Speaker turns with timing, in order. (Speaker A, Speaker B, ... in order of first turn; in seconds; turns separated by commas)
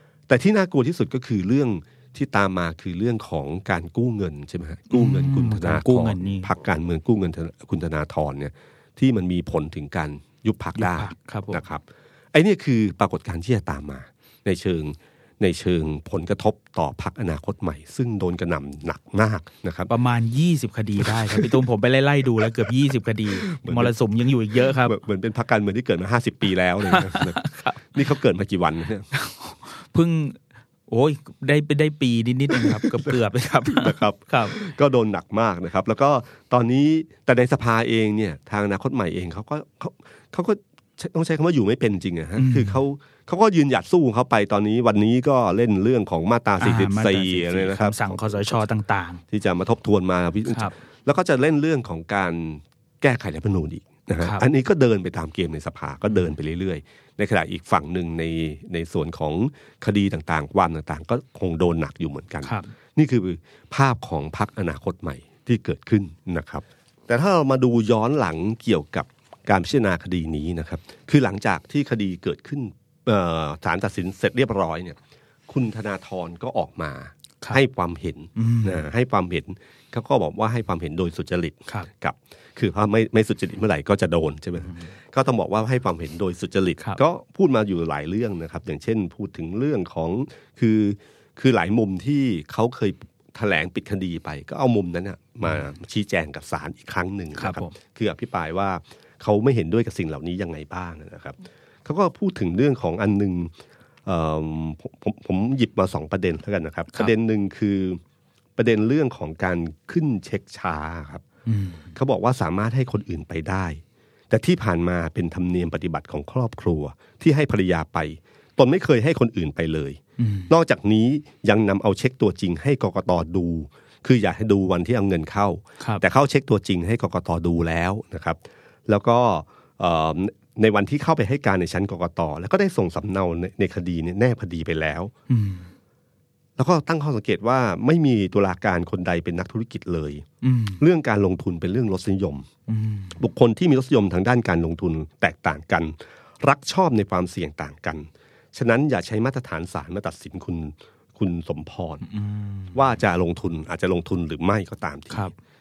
Speaker A: 0.3-19.9, Speaker B: 4.9-6.5, Speaker B: 10.7-11.6, Speaker B: 19.9-25.0, Speaker A: 21.0-21.6, Speaker A: 23.4-23.9, Speaker A: 24.6-29.1, Speaker B: 26.9-27.8, Speaker B: 29.1-34.6, Speaker A: 32.5-33.1, Speaker A: 33.6-48.5, Speaker B: 42.4-42.8, Speaker B: 46.6-49.2, Speaker A: 49.3-103.5, Speaker B: 50.5-50.7, Speaker B: 54.2-54.5, Speaker B: 62.4-62.7, Speaker B: 78.3-78.8, Speaker B: 97.4-97.7, Speaker A: 104.0-108.0, Speaker A: 108.6-111.2, Speaker B: 111.5-111.9, Speaker A: 111.9-135.1, Speaker B: 120.2-120.5, Speaker B: 135.3-135.7, Speaker A: 136.6-140.2, Speaker B: 140.4-140.8, Speaker A: 140.8-142.5, Speaker B: 142.7-143.2, Speaker A: 143.2-152.1, Speaker B: 152.1-152.8, Speaker A: 152.7-155.3